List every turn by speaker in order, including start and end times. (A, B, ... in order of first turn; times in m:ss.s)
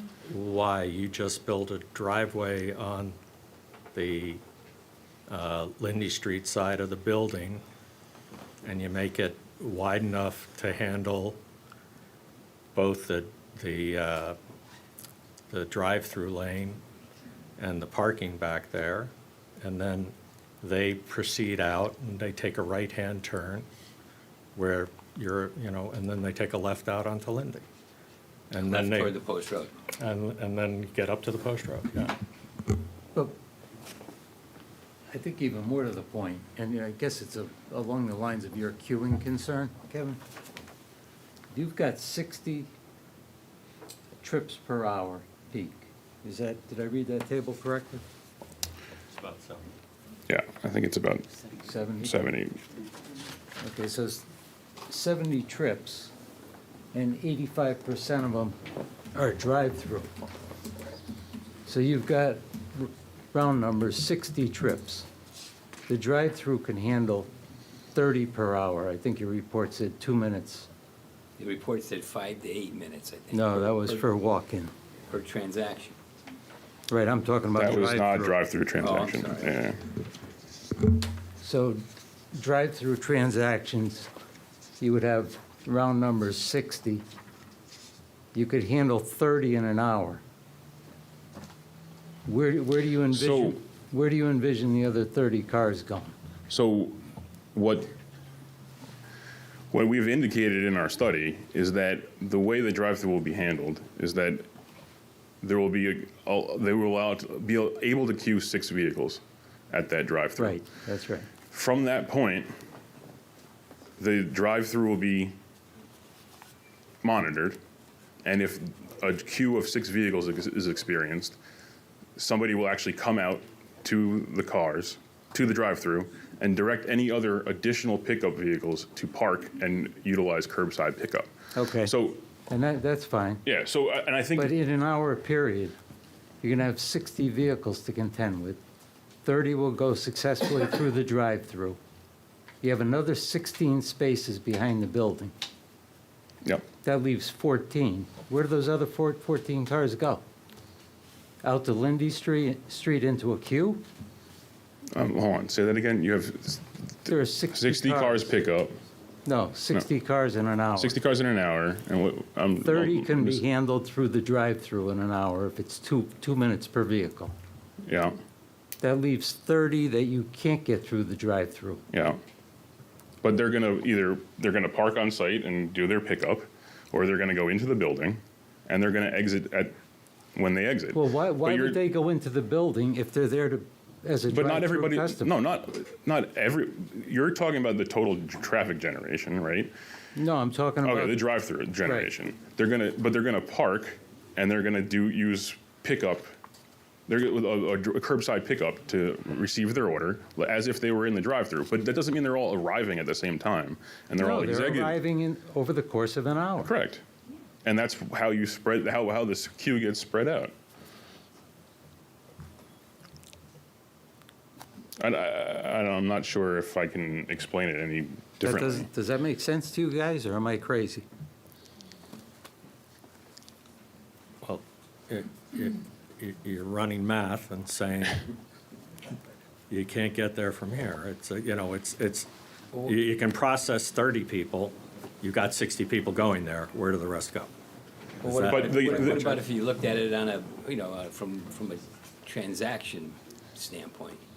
0:00.3-0:03.2 A
0:03.9-0:04.4 A
0:05.3-0:07.6 A
0:08.6-0:11.4 A
0:12.7-0:14.4 A
0:15.5-0:16.8 A
0:17.6-0:23.7 A
0:24.6-0:27.7 A
0:28.5-0:29.2 A
0:28.6-0:29.7 B
0:30.0-0:32.2 A
0:35.1-0:40.2 C
0:41.5-0:42.7 C
0:44.2-0:48.0 C
0:49.1-0:49.7 A
0:50.3-0:51.3 D
0:51.6-0:52.2 C
0:52.0-0:52.6 D
0:53.6-0:54.2 C
0:54.9-0:56.1 C
0:56.9-0:58.6 C
0:59.1-1:00.1 C
1:01.7-1:05.1 C
1:05.9-1:07.3 C
1:07.9-1:10.7 C
1:11.4-1:14.0 B
1:13.3-1:14.7 C
1:15.1-1:16.0 B
1:16.9-1:18.4 C
1:17.6-1:19.8 D
1:18.8-1:19.6 B
1:21.4-1:21.8 C
1:22.3-1:24.1 C
1:24.8-1:27.0 C
1:28.3-1:30.2 C
1:32.3-1:36.1 C
1:33.1-1:33.6 D
1:36.5-1:37.0 D
1:37.6-1:37.9 D
1:39.7-1:44.4 D
1:45.4-1:50.6 D
1:50.4-1:51.3 C
1:51.5-1:52.5 D
1:54.0-1:55.4 D
1:57.0-1:57.6 D
1:58.2-2:01.4 D
2:02.2-2:11.3 D
2:11.6-2:11.9 C
2:11.8-2:12.2 D
2:12.5-2:13.4 C
2:13.4-2:14.6 D
2:14.4-2:15.8 C
2:16.4-2:18.6 C
2:19.2-2:21.8 C
2:22.6-2:25.3 C
2:26.8-2:30.2 C
2:31.4-2:33.8 C
2:35.0-2:38.7 D
2:37.1-2:38.2 C
2:39.3-2:41.0 C
2:40.8-2:43.4 D
2:42.6-2:47.4 C
2:47.9-2:48.2 D
2:48.8-2:51.8 C
2:51.9-2:52.2 D
2:53.2-2:59.7 D
3:00.4-3:01.8 D
3:00.9-3:05.3 C
3:04.3-3:09.7 D
3:10.2-3:11.2 C
3:10.8-3:16.3 D
3:11.8-3:12.1 C
3:17.1-3:25.0 D
3:24.2-3:26.7 C
3:26.6-3:27.0 D
3:27.6-3:30.5 D
3:35.0-3:38.9 D
3:38.4-3:41.1 C
3:44.4-3:48.2 A
3:49.7-3:57.5 A
3:58.2-3:59.3 A
3:58.2-4:04.2 B
3:58.4-3:59.4 D